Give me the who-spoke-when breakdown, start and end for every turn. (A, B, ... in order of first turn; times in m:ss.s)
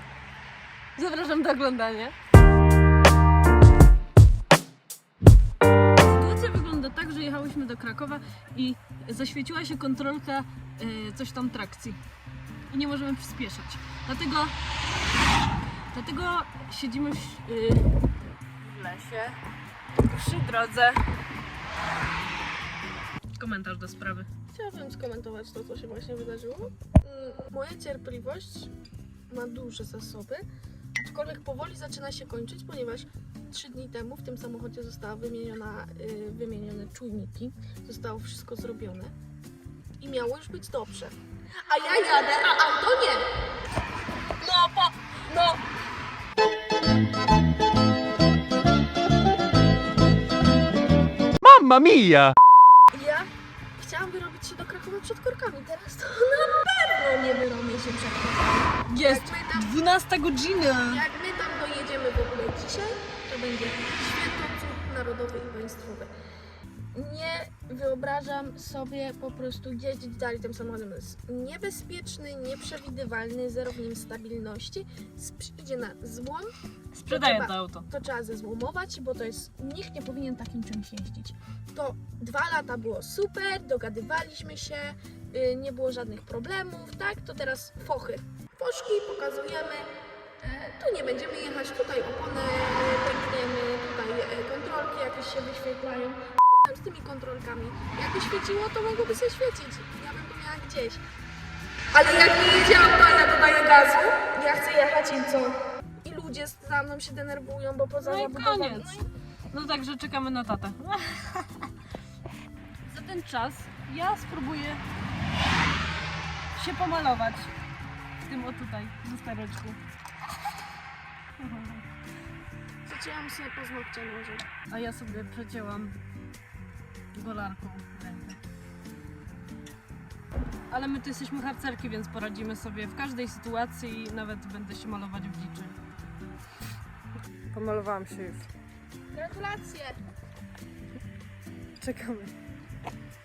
0:01.0-0:02.1 A
0:06.0-0:12.0 A
0:12.7-0:14.5 A
0:15.9-0:17.9 A
0:18.6-0:19.4 A
0:20.0-0:21.0 A
0:23.4-0:24.3 A
0:24.5-0:28.7 B
0:29.3-0:39.1 B
0:40.0-0:41.2 B
0:41.7-0:43.2 B
0:44.4-0:45.6 B
0:51.4-0:52.2 A
0:52.9-0:59.7 B
0:58.9-1:01.0 A
1:00.9-1:06.1 B
1:06.9-1:16.5 B
1:16.9-1:17.9 A
1:17.1-1:29.9 B
1:30.4-1:41.0 B
1:41.9-1:49.1 B
1:48.0-1:48.9 A
1:49.5-1:51.7 A
1:52.9-1:54.8 A
1:56.5-1:57.5 A
1:58.2-1:59.8 A
2:01.4-2:01.8 A
2:02.8-2:04.5 B
2:04.7-2:06.0 A
2:07.1-2:08.4 A
2:10.7-2:15.8 A
2:17.5-2:18.5 A
2:19.1-2:20.0 B
2:21.8-2:22.3 A